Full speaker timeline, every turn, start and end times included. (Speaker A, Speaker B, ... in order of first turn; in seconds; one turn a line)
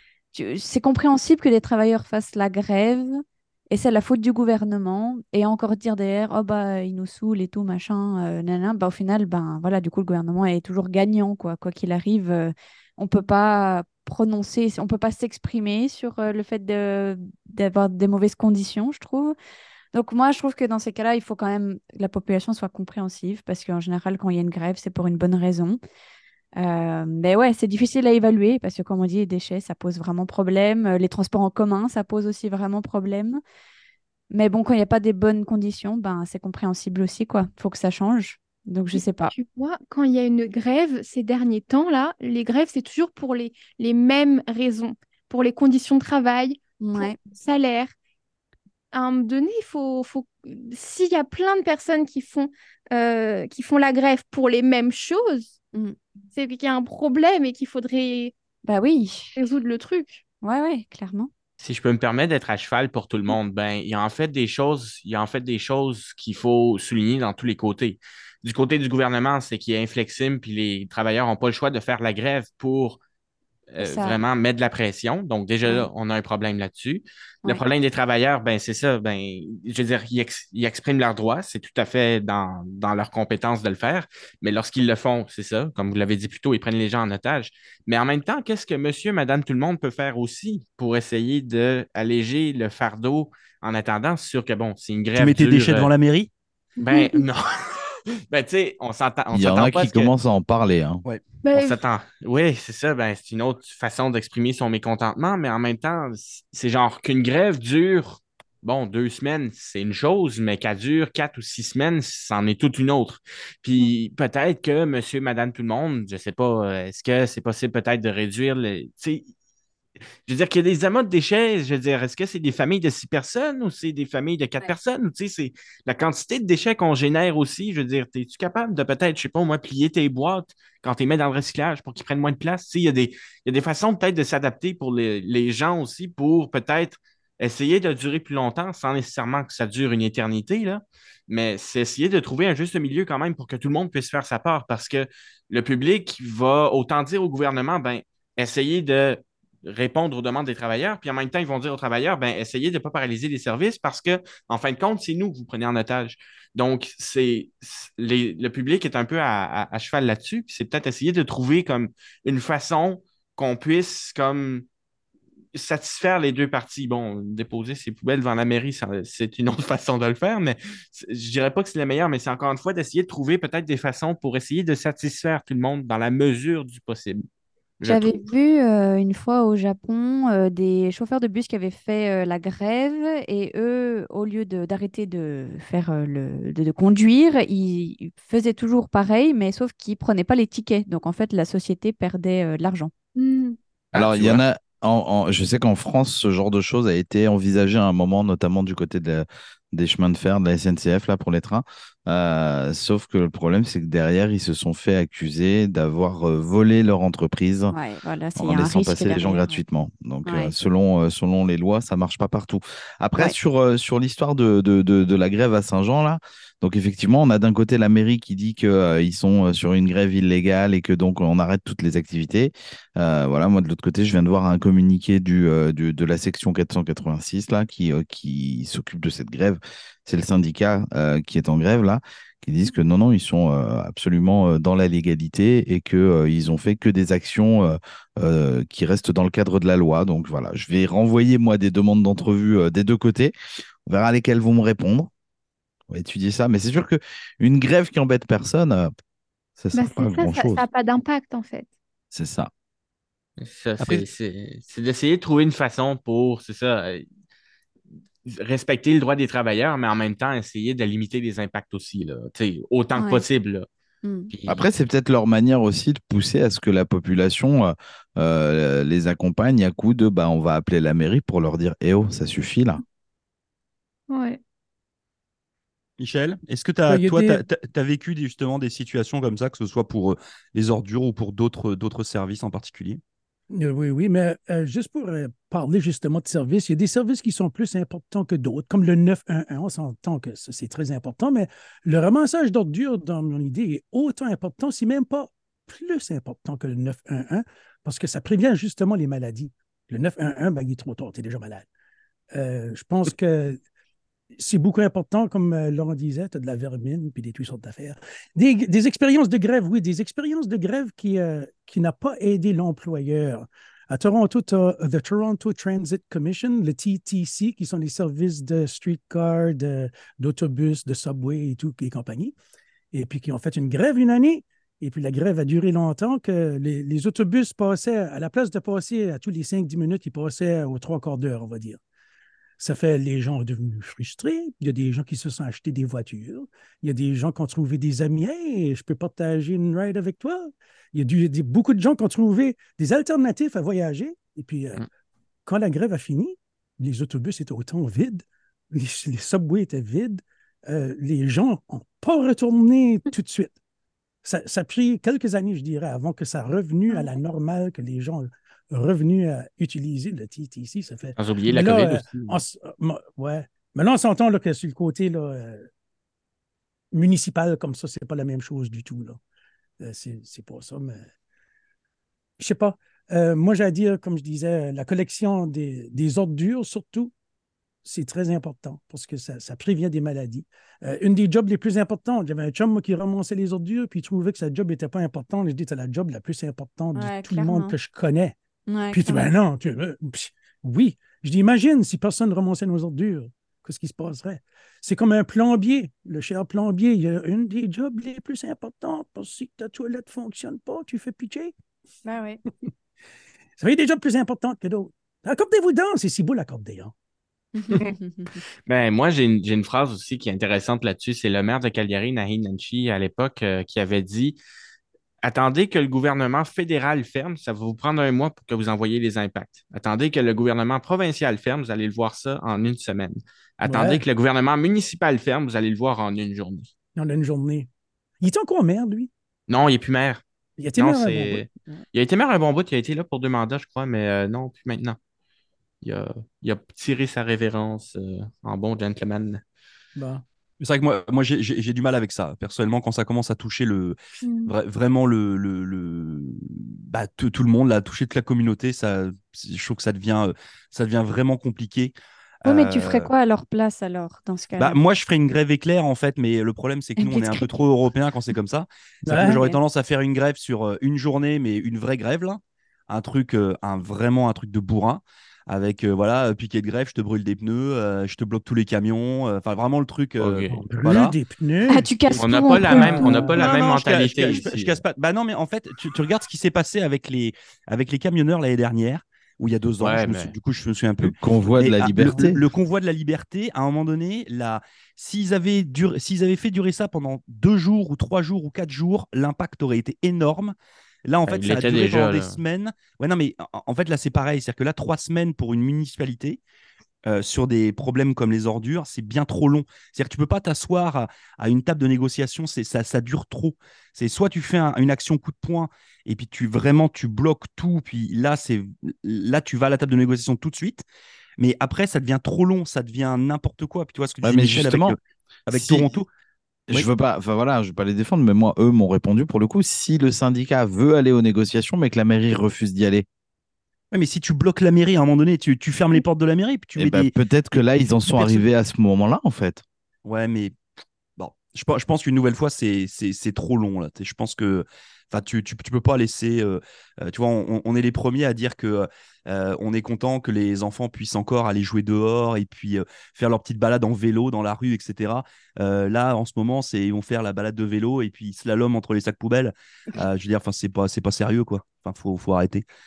Speaker A: 0.3-19.3
Speaker A: 19.9-25.8
Speaker A: 26.6-33.4
Speaker A: 34.3-39.3
Speaker B: 38.9-47.9
Speaker A: 46.8-47.1
Speaker B: 48.9-55.5
Speaker B: 56.3-58.3
Speaker A: 58.6-59.3
Speaker B: 59.4-60.2
Speaker A: 60.4-61.3
Speaker C: 61.6-73.0
Speaker C: 73.7-95.9
Speaker A: 73.8-74.2
Speaker D: 95.2-96.3
Speaker B: 96.8-97.2
Speaker C: 96.8-100.1
Speaker E: 99.3-101.0
Speaker B: 101.4-101.8
Speaker C: 101.5-119.3
Speaker C: 120.2-164.7
Speaker C: 165.5-177.2
Speaker C: 177.8-178.3
Speaker A: 177.8-192.9
Speaker B: 193.2-193.6
Speaker C: 193.9-194.4
Speaker E: 193.9-207.7
Speaker A: 207.7-209.6
Speaker E: 208.4-243.3
Speaker A: 210.2-210.5
Speaker E: 243.8-245.1
Speaker E: 245.9-248.9
Speaker E: 249.6-250.6
Speaker B: 249.7-251.7
Speaker E: 252.1-252.5
Speaker C: 253.4-257.1
Speaker C: 258.2-263.7
Speaker A: 263.0-263.2
Speaker A: 264.0-264.3
Speaker C: 264.3-264.6
Speaker E: 264.5-272.8
Speaker B: 274.1-274.4
Speaker D: 276.0-283.0
Speaker F: 276.9-277.4
Speaker F: 283.5-301.7
Speaker F: 302.3-303.6
Speaker F: 304.4-322.3
Speaker F: 322.9-331.8
Speaker F: 332.6-344.8
Speaker F: 345.4-353.6
Speaker F: 354.2-365.7
Speaker C: 361.2-362.4
Speaker F: 366.9-369.2
Speaker F: 369.8-371.0
Speaker F: 372.4-377.1
Speaker F: 377.8-388.4
Speaker A: 386.9-387.8
Speaker A: 388.7-389.3
Speaker F: 388.9-401.5
Speaker A: 402.0-402.4
Speaker F: 403.6-406.9
Speaker A: 407.5-408.4
Speaker C: 408.7-414.4
Speaker C: 415.2-426.7
Speaker F: 423.6-424.0
Speaker F: 426.9-427.7
Speaker F: 428.2-429.1
Speaker C: 429.5-430.2
Speaker F: 430.6-431.8
Speaker C: 430.7-435.0
Speaker C: 435.8-439.4
Speaker F: 439.9-440.2
Speaker D: 440.6-453.1
Speaker B: 444.2-444.5
Speaker A: 452.4-454.8
Speaker D: 454.6-471.2
Speaker A: 457.0-457.5
Speaker F: 459.0-459.4
Speaker A: 459.2-459.6
Speaker C: 470.2-470.6
Speaker F: 470.5-471.9
Speaker A: 471.7-473.3
Speaker C: 472.1-474.8
Speaker F: 472.7-473.4
Speaker D: 473.3-490.5
Speaker C: 479.8-480.3
Speaker E: 481.0-482.4
Speaker D: 491.1-496.4
Speaker C: 491.3-492.4
Speaker D: 497.1-510.8
Speaker D: 511.4-516.1
Speaker E: 514.2-515.0
Speaker E: 515.5-515.9
Speaker E: 516.7-523.0
Speaker D: 523.9-527.1
Speaker E: 526.8-529.6
Speaker D: 528.1-528.4
Speaker D: 530.0-530.6
Speaker D: 531.2-552.6